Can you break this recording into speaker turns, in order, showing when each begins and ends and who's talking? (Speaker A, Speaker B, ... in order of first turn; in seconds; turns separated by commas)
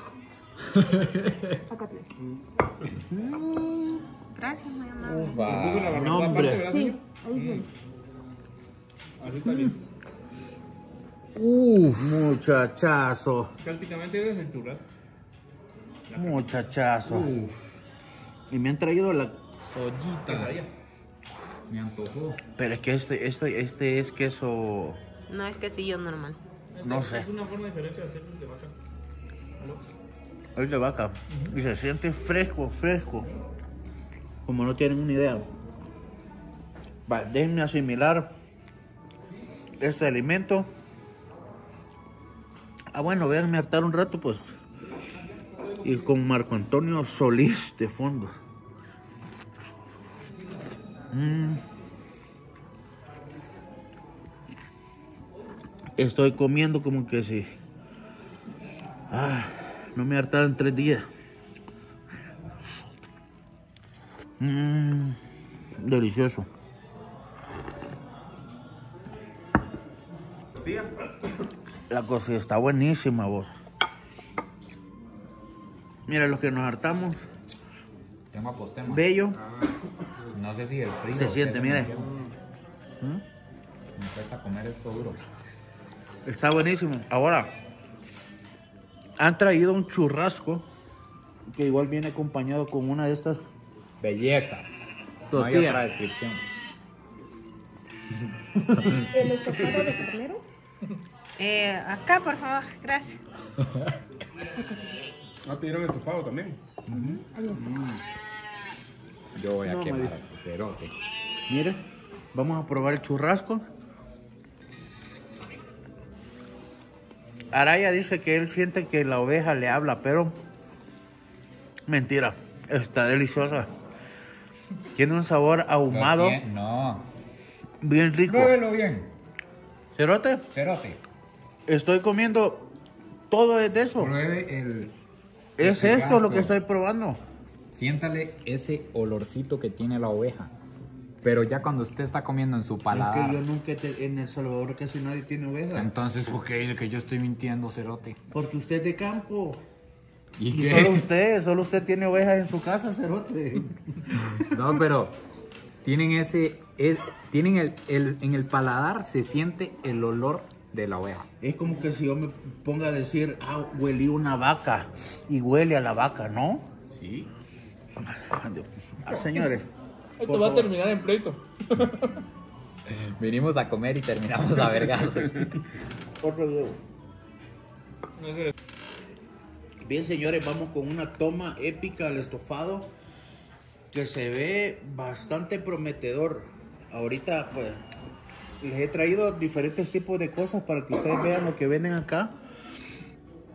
Speaker A: 0.6-1.6, Speaker B: 1.7-2.1, Speaker C: 2.2-2.9, Speaker D: 3.1-5.7, Speaker A: 5.0-6.2, Speaker E: 5.5-7.7, Speaker C: 5.5-6.5, Speaker F: 5.9-6.7, Speaker B: 6.5-7.7, Speaker E: 9.2-9.8, Speaker F: 9.4-9.7, Speaker A: 11.4-12.3, Speaker F: 12.0-13.5, Speaker E: 13.6-14.8, Speaker E: 16.1-16.6, Speaker F: 16.1-17.3, Speaker A: 17.1-17.6, Speaker F: 18.5-19.4, Speaker A: 19.7-20.6, Speaker E: 20.2-20.7, Speaker A: 21.7-22.4, Speaker F: 22.6-25.0, Speaker D: 25.3-26.4, Speaker E: 26.7-28.7, Speaker F: 26.8-27.3, Speaker F: 30.6-33.3, Speaker E: 31.3-31.6, Speaker F: 34.5-35.5, Speaker F: 37.1-38.3, Speaker F: 39.8-40.7, Speaker F: 42.9-44.4, Speaker F: 45.8-48.3, Speaker F: 51.1-51.6, Speaker F: 56.0-57.5, Speaker F: 59.1-61.1, Speaker F: 64.4-65.2, Speaker F: 65.8-66.5, Speaker C: 70.5-70.9, Speaker F: 71.9-73.5, Speaker F: 76.1-77.2, Speaker A: 78.3-79.1, Speaker F: 78.9-79.4, Speaker C: 79.3-80.4, Speaker A: 80.3-82.1, Speaker F: 81.1-81.9, Speaker C: 81.6-82.3, Speaker A: 84.0-85.2, Speaker F: 86.2-87.5, Speaker F: 89.2-90.7, Speaker F: 91.5-93.4, Speaker A: 94.0-96.4, Speaker F: 95.3-95.9, Speaker A: 98.8-99.0, Speaker B: 99.1-100.4, Speaker D: 101.4-103.2, Speaker A: 103.7-103.9, Speaker C: 105.5-106.6, Speaker F: 106.9-107.2, Speaker B: 106.9-107.8, Speaker A: 109.4-110.9, Speaker F: 109.7-110.2, Speaker F: 111.5-113.7, Speaker F: 117.5-120.4, Speaker F: 121.9-123.7, Speaker F: 125.0-126.4, Speaker A: 125.9-127.1, Speaker F: 127.8-128.6, Speaker A: 128.3-129.1, Speaker F: 130.0-130.5, Speaker A: 130.5-131.0, Speaker F: 131.7-132.7, Speaker F: 133.3-134.2, Speaker A: 134.0-134.9, Speaker F: 135.6-137.2, Speaker A: 135.6-136.6, Speaker A: 137.7-140.5, Speaker A: 141.2-143.4, Speaker F: 142.9-145.9, Speaker A: 145.8-148.2, Speaker F: 148.3-149.6, Speaker A: 150.4-151.1, Speaker F: 150.5-154.3, Speaker A: 154.3-155.2, Speaker A: 155.8-161.3, Speaker F: 161.4-166.7, Speaker A: 166.9-167.3, Speaker F: 168.0-169.7, Speaker E: 170.2-172.2, Speaker F: 170.2-170.7, Speaker A: 172.9-175.6, Speaker F: 176.2-176.8, Speaker E: 178.2-178.5, Speaker F: 179.8-182.9, Speaker F: 183.9-187.8, Speaker F: 188.6-192.3